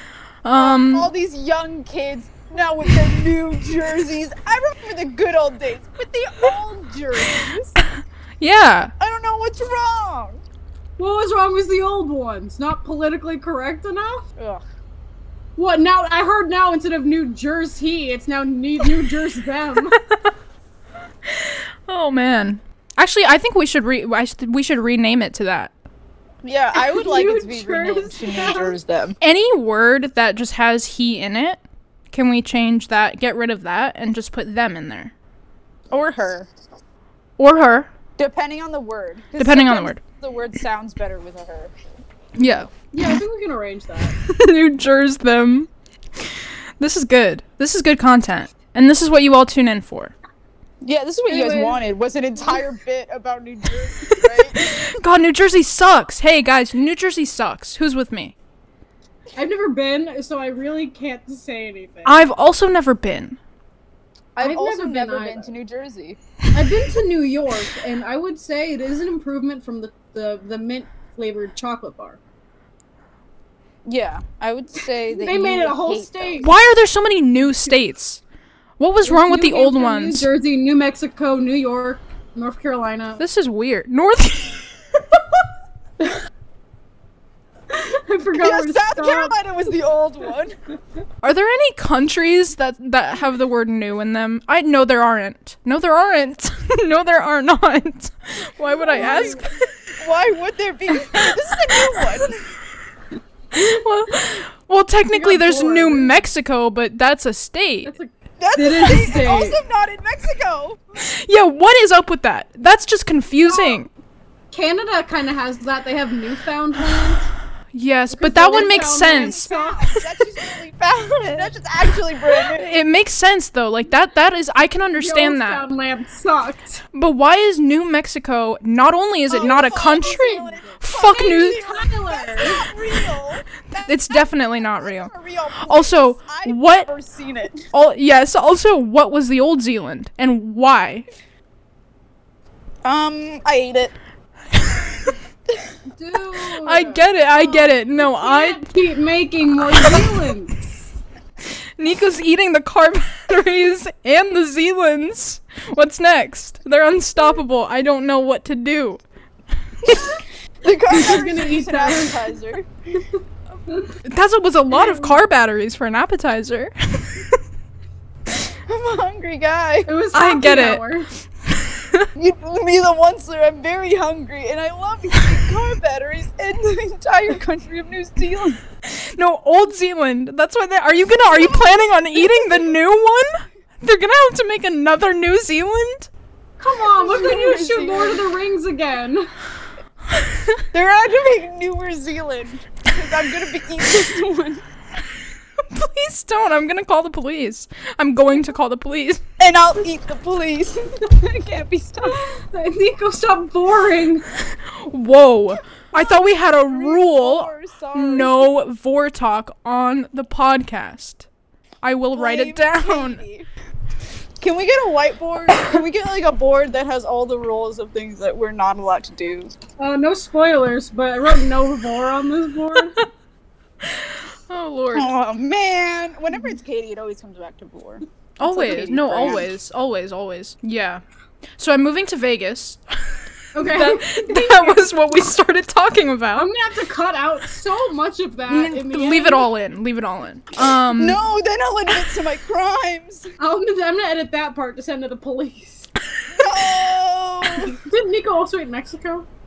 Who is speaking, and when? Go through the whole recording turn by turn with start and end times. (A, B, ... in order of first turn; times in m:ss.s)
0:00.4-0:01.1 A
0:00.5-0:07.8 B
0:08.4-0:08.9 A
0:09.0-0:10.4 B
0:11.0-0:14.2 C
0:14.4-0:14.6 B
0:15.6-0:20.0 C
0:20.0-0:20.3 A
0:21.2-0:25.7 A
0:26.4-0:29.2 B
0:26.7-0:28.7 C
0:29.2-0:31.6 A
0:32.1-0:35.1 A
0:35.9-0:36.5 B
0:37.4-0:37.9 A
0:38.2-0:41.7 B
0:39.4-0:40.0 A
0:42.4-0:43.1 A
0:42.9-0:44.2 C
0:44.2-0:50.1 A
0:50.8-0:55.0 B
0:51.3-0:51.8 C
0:54.5-0:58.3 A
0:59.3-1:02.2 C
1:02.0-1:03.4 A
1:04.4-1:06.2 B
1:04.4-1:05.5 C
1:06.5-1:12.2 C
1:13.8-1:16.4 B
1:15.2-1:16.5 C
1:16.4-1:18.2 A
1:18.8-1:20.3 A
1:19.0-1:23.2 C
1:23.2-1:24.7 A
1:27.7-1:29.4 C
1:28.3-1:30.6 B
1:31.2-1:39.7 A
1:38.8-1:39.5 C
1:38.9-1:39.4 B
1:40.0-1:42.5 B
1:43.5-1:47.9 A
1:43.5-1:44.3 C
1:45.1-1:46.3 C
1:47.8-1:49.6 C
1:48.4-1:50.8 B
1:51.0-1:53.9 A
1:53.5-1:53.8 C
1:54.5-1:57.3 C
1:57.7-2:00.0 A
1:58.1-1:59.8 C
1:58.5-2:02.7 B
2:02.6-2:05.6 A
2:05.0-2:06.8 C
2:06.9-2:11.6 A
2:09.3-2:17.7 B
2:09.3-2:12.7 C
2:13.8-2:15.1 A
2:15.6-2:16.9 A
2:17.7-2:21.0 A
2:22.8-2:23.9 B
2:26.0-2:30.7 C
2:26.6-2:28.6 A
2:29.8-2:30.1 A
2:31.8-2:39.0 A
2:40.6-2:42.7 B
2:40.9-2:42.3 C
2:44.0-2:47.4 A
2:44.8-2:45.1 C
2:48.3-2:49.9 B
2:49.8-2:51.1 C
2:50.1-2:50.8 A
2:51.6-2:52.1 A
2:52.2-2:58.6 B
2:58.9-3:06.1 A
3:06.6-3:09.3 C
3:06.8-3:08.2 B
3:10.1-3:10.6 A
3:10.7-3:14.6 B
3:15.7-3:19.2 A
3:19.4-3:22.2 B
3:22.0-3:24.2 C
3:24.6-3:31.3 A
3:25.9-3:28.5 B
3:31.8-3:33.2 A
3:32.1-3:33.5 B
3:34.4-3:39.5 B
3:39.8-3:43.0 C
3:43.8-3:45.1 A
3:44.9-3:49.5 B
3:48.4-3:51.0 A
3:51.6-3:56.5 A
3:53.5-3:54.9 C
3:56.4-3:59.5 C
3:58.5-4:01.2 A
4:00.9-4:03.3 B
4:03.4-4:05.9 C
4:06.3-4:07.8 B
4:07.5-4:09.3 C